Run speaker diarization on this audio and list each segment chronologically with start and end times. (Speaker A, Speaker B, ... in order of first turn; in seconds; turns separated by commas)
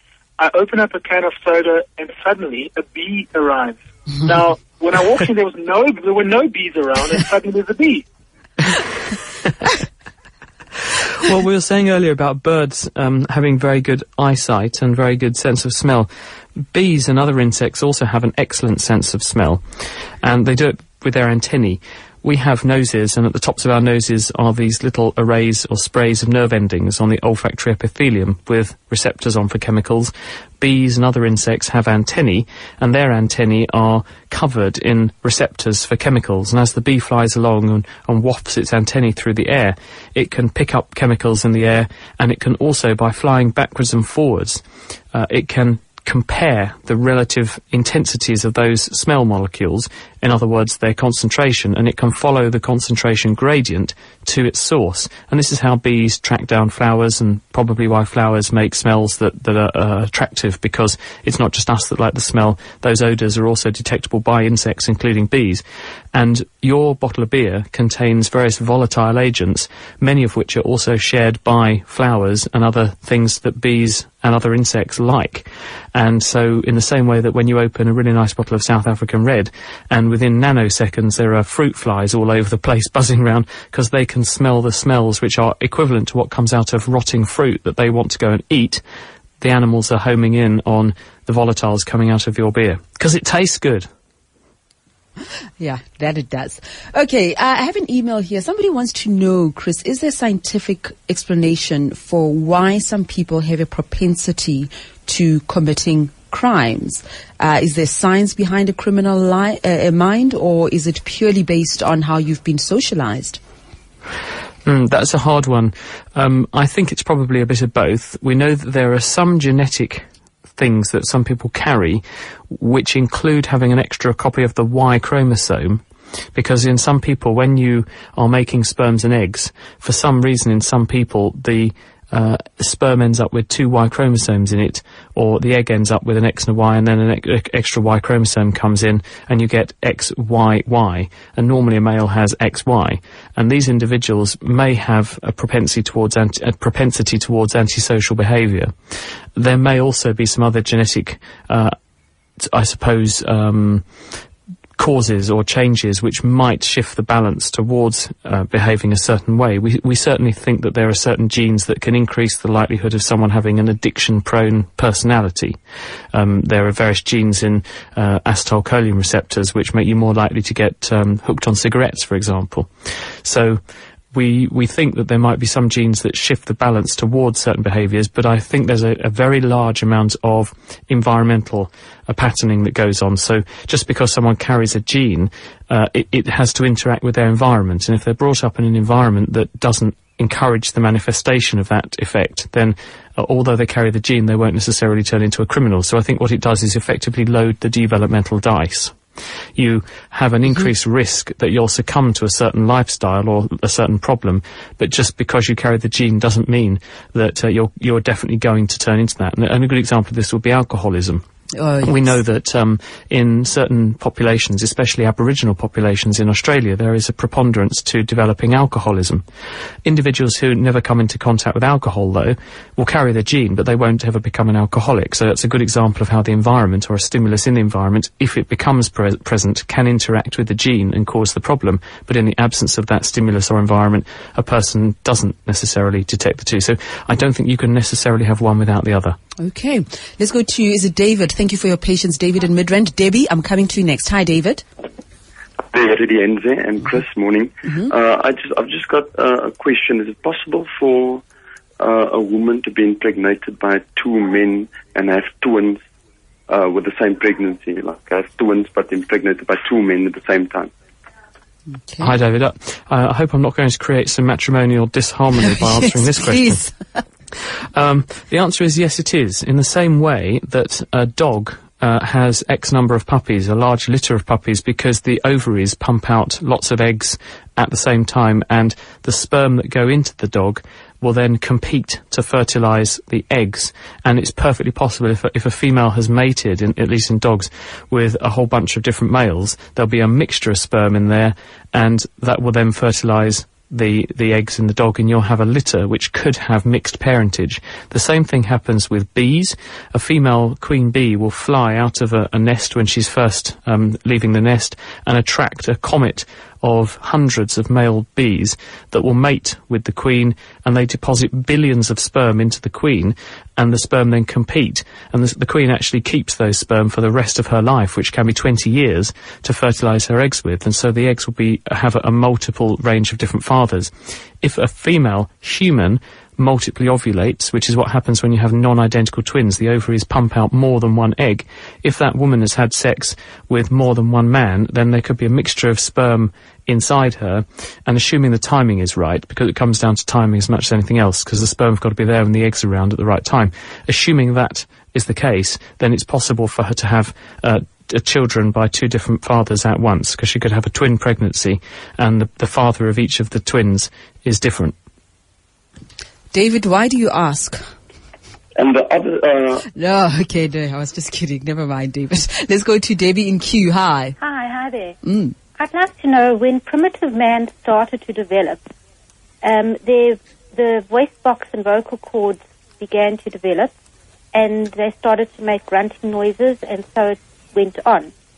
Speaker A: 0.4-8.1, Speaker B: 11.2-16.1, Speaker B: 16.7-19.6, Speaker B: 20.2-44.6, Speaker B: 45.1-65.6, Speaker B: 66.1-88.8, Speaker B: 89.4-93.9, Speaker C: 95.6-113.4, Speaker B: 114.7-120.0, Speaker B: 120.6-125.8, Speaker B: 126.3-148.7, Speaker B: 149.4-151.7, Speaker B: 152.4-153.8, Speaker B: 154.8-165.6, Speaker B: 166.1-172.7, Speaker B: 173.2-173.6, Speaker B: 174.1-198.9, Speaker B: 199.6-211.2, Speaker C: 211.6-212.0, Speaker B: 211.8-219.2, Speaker B: 219.8-239.2, Speaker C: 239.4-244.6, Speaker D: 245.7-251.2, Speaker D: 251.8-255.8, Speaker D: 256.5-260.7, Speaker C: 261.8-262.1, Speaker B: 262.0-266.6, Speaker C: 265.6-267.0, Speaker B: 267.7-323.9, Speaker B: 324.4-354.7, Speaker C: 356.3-357.6, Speaker D: 358.6-359.6, Speaker C: 359.7-364.2, Speaker E: 364.2-365.0, Speaker C: 365.0-365.3, Speaker E: 365.6-368.6, Speaker E: 369.4-373.7, Speaker E: 374.3-378.1